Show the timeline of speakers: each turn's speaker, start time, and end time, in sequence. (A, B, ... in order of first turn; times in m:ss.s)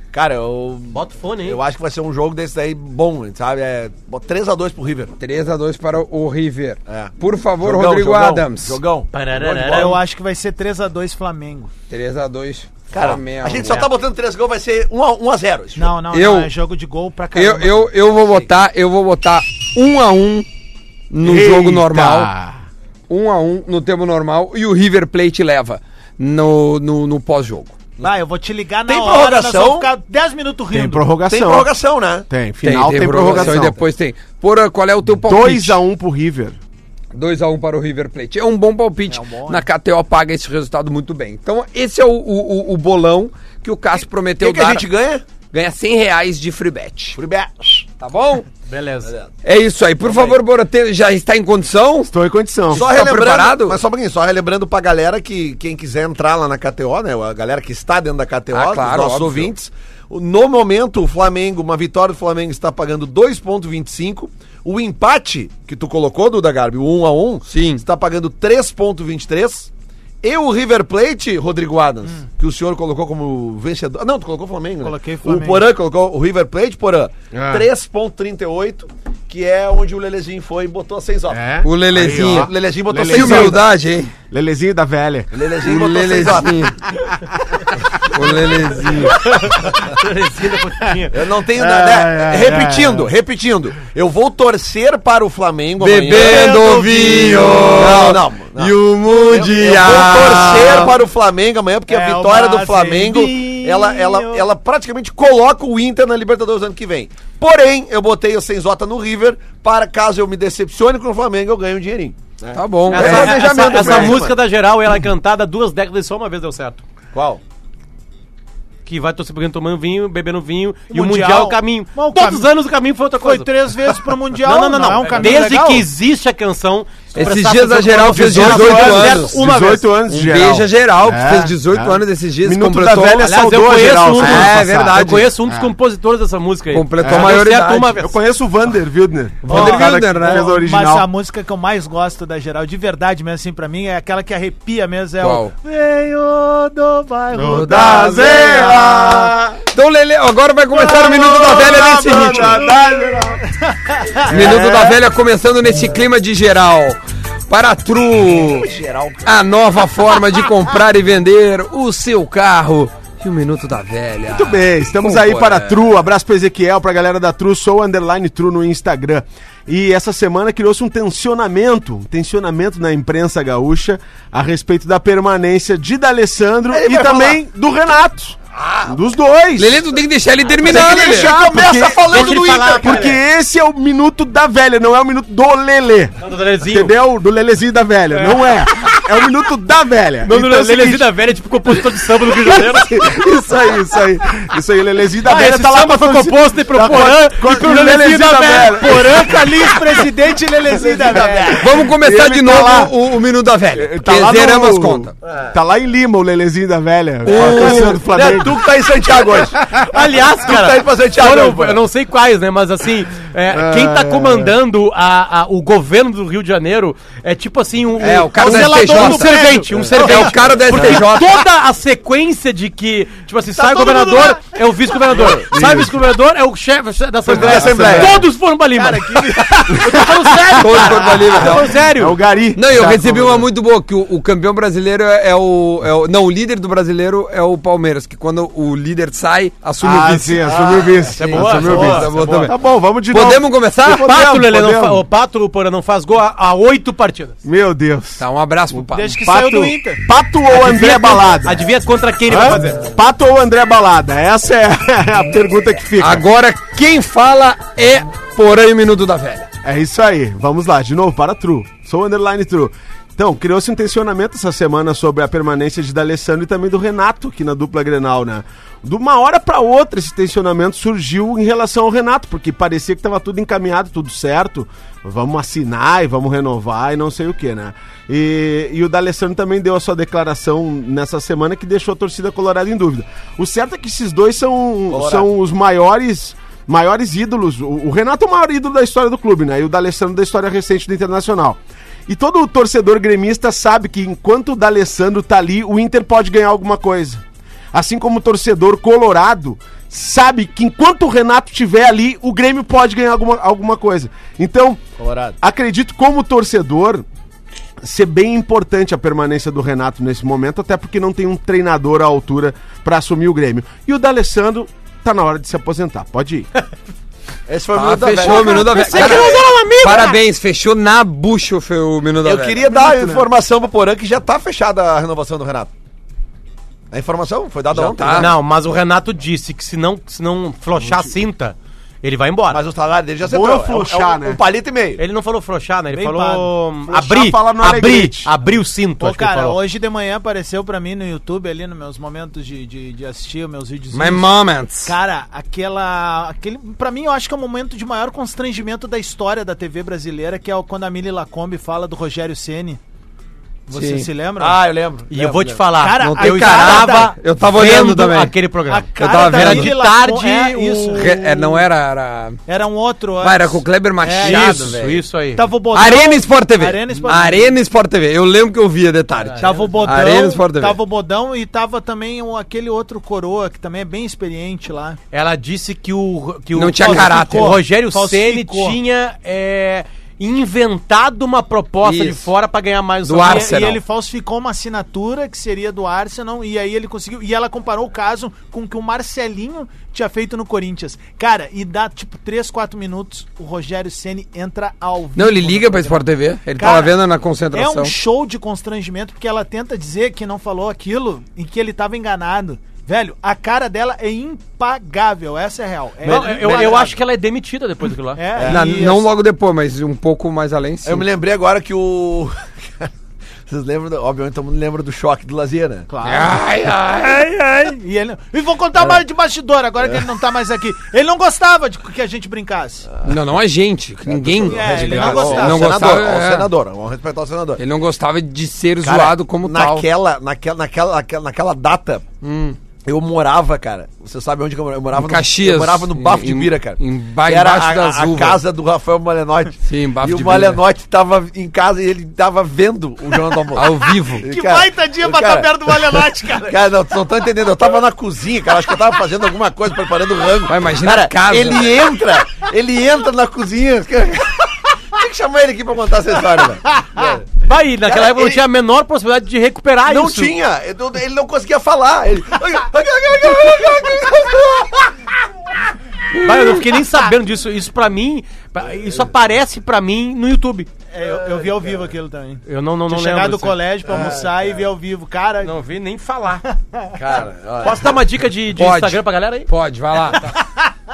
0:00.1-0:05.1 A
0:00.9-0:01.6 B
0:05.2-0:08.8 C
0:06.9-0:10.0 A
0:09.1-0:10.0 B
0:09.7-0:11.7 D
0:11.9-0:13.8 C
0:12.9-0:16.0 A
0:13.6-0:13.9 B
0:15.8-0:17.9 D
0:16.1-0:16.5 C
0:17.4-0:20.5 C
0:21.1-0:22.3 C
0:21.2-0:22.6 E
0:23.1-0:27.8 C
0:28.0-0:31.1 D
0:28.9-0:29.9 A
0:30.7-0:31.7 E
0:31.3-0:32.3 A
0:32.3-0:33.8 E
0:32.6-0:35.8 C
0:33.0-0:33.7 A
0:35.2-0:36.6 E
0:37.1-0:44.9 C
0:39.1-0:39.6 D
0:44.4-0:45.2 A
0:45.5-0:47.2 C
0:47.2-0:47.8 A
0:48.0-0:48.5 C
0:48.7-0:49.1 B
0:49.4-0:52.1 C
0:50.1-0:50.4 A
0:52.1-0:52.9 E
0:52.7-0:53.8 C
0:52.7-1:09.7 A
0:58.5-0:59.5 C
1:07.5-1:07.8 C
1:10.2-1:23.6 A
1:14.8-1:15.7 D
1:17.3-1:17.7 E
1:21.3-1:23.6 E
1:21.6-1:22.5 C
1:23.1-1:24.1 C
1:24.3-1:25.3 E
1:25.3-1:26.7 A
1:25.6-1:26.8 C
1:28.0-1:29.2 C
1:29.0-1:31.2 B
1:31.1-1:36.6 A
1:31.5-1:33.1 E
1:35.8-1:41.0 C
1:36.1-1:37.7 D
1:37.8-1:54.4 A
1:41.9-1:44.5 D
1:52.5-1:54.2 C
1:52.9-1:56.8 B
1:57.1-1:57.4 A
1:58.8-2:03.5 B
2:00.9-2:02.5 D
2:03.2-2:05.9 D
2:04.4-2:09.9 B
2:07.2-2:09.4 C
2:08.1-2:15.7 E
2:10.1-2:13.3 C
2:13.2-2:18.2 B
2:14.2-2:15.4 C
2:16.7-2:18.0 C
2:17.0-2:17.4 E
2:17.9-2:21.1 E
2:19.4-2:20.5 C
2:19.5-2:29.1 D
2:25.2-2:25.5 C
2:27.3-2:29.6 E
2:27.5-2:32.7 C
2:30.7-2:33.4 E
2:32.7-2:34.3 D
2:34.3-2:35.0 E
2:34.3-2:37.0 C
2:37.5-2:38.7 C
2:38.3-2:39.3 A
2:39.2-2:45.8 C
2:44.3-2:59.8 E
2:56.7-2:57.4 A
2:58.6-2:58.9 A
2:59.6-3:01.4 C
3:00.6-3:03.1 A
3:00.6-3:11.1 E
3:02.1-3:03.2 B
3:06.2-3:06.9 B
3:08.1-3:09.0 B
3:10.2-3:13.2 B
3:12.2-3:19.7 E
3:15.2-3:19.4 B
3:18.6-3:21.7 D
3:20.8-3:21.6 A
3:21.0-3:22.9 E
3:21.6-3:25.1 C
3:23.8-3:28.7 E
3:27.2-3:28.0 C
3:27.3-3:29.8 A
3:29.4-3:29.8 E
3:29.8-3:52.2 B
3:30.4-3:31.8 A
3:33.5-3:34.5 E
3:38.0-3:41.4 C
3:38.4-3:39.9 D
3:40.0-3:41.0 A
3:43.6-3:44.4 A
3:45.1-3:45.5 A
3:45.3-3:45.9 E
3:47.3-3:48.2 A
3:47.3-3:48.3 E
3:48.8-3:50.8 D
3:49.7-3:50.2 E
3:50.6-3:51.8 C
3:51.4-3:53.5 E
3:52.6-4:02.6 C
3:59.8-4:05.0 E
4:01.2-4:02.6 B
4:03.1-4:04.1 C
4:03.8-4:07.4 B
4:07.4-4:08.2 E
4:08.2-4:09.2 C
4:08.8-4:10.0 D
4:09.2-4:11.6 E
4:10.5-4:12.8 B
4:12.3-4:16.2 E
4:16.0-4:19.5 C
4:19.6-4:57.2 E
4:44.9-4:45.3 A
4:57.7-5:04.8 E
5:05.0-5:05.4 A
5:05.4-5:07.0 E
5:07.8-5:16.5 E
5:17.5-5:19.4 A
5:17.7-5:22.6 C
5:18.2-5:20.2 B
5:22.2-5:25.7 A
5:22.6-5:23.3 E
5:26.9-5:28.4 A
5:27.7-5:28.4 C
5:28.0-5:32.6 B
5:32.5-5:35.0 A
5:33.2-5:34.4 E
5:35.0-5:39.6 B
5:35.9-5:36.5 D
5:36.9-5:38.3 E
5:39.0-5:44.3 D
5:43.9-5:44.9 C
5:44.8-5:52.8 D
5:53.7-5:54.6 D
5:53.7-5:54.1 C
5:54.4-5:55.6 A
5:55.1-6:01.2 B
5:55.8-5:57.1 D
5:56.0-5:58.3 C
5:58.7-6:01.4 D
5:59.0-5:59.7 C
6:00.9-6:02.4 C
6:02.5-6:04.7 D
6:03.2-6:05.0 C
6:04.2-6:05.5 B
6:05.4-6:07.6 D
6:05.7-6:10.8 C
6:09.2-6:09.9 B
6:09.4-6:15.0 D
6:15.1-6:23.8 B
6:16.5-6:17.6 C
6:16.8-6:18.8 D
6:21.8-6:22.3 C
6:23.0-6:23.8 C
6:23.2-6:36.1 D
6:35.2-6:38.0 C
6:36.6-6:37.0 D
6:37.5-6:46.9 D
6:46.0-6:47.0 A
6:46.1-6:48.2 B
6:48.2-6:49.1 D
6:48.4-6:48.6 A
6:48.4-6:51.0 C
6:50.8-6:52.9 A
6:53.5-6:55.9 A
6:55.9-7:02.9 D
6:56.0-6:57.3 C
7:03.0-7:06.5 C
7:04.1-7:07.6 A
7:04.5-7:05.8 D
7:07.6-7:09.9 C
7:08.8-7:12.1 A
7:12.2-7:12.6 C
7:12.8-7:37.3 A
7:14.9-7:18.4 C
7:19.6-7:20.6 C
7:23.5-7:24.3 C
7:24.1-7:26.6 D
7:30.5-7:31.9 C
7:37.4-7:40.4 B
7:37.8-7:38.4 A
7:39.9-7:44.9 A
7:46.2-7:46.5 C
7:46.2-7:50.7 B
7:50.9-7:55.5 D
7:51.1-7:51.5 A
7:52.5-7:53.6 B
7:53.9-7:54.5 A
7:55.4-7:56.4 B
7:56.6-7:57.0 D
7:57.0-7:58.0 A
7:57.6-7:59.5 B
7:58.6-8:00.3 C
8:00.3-8:00.7 D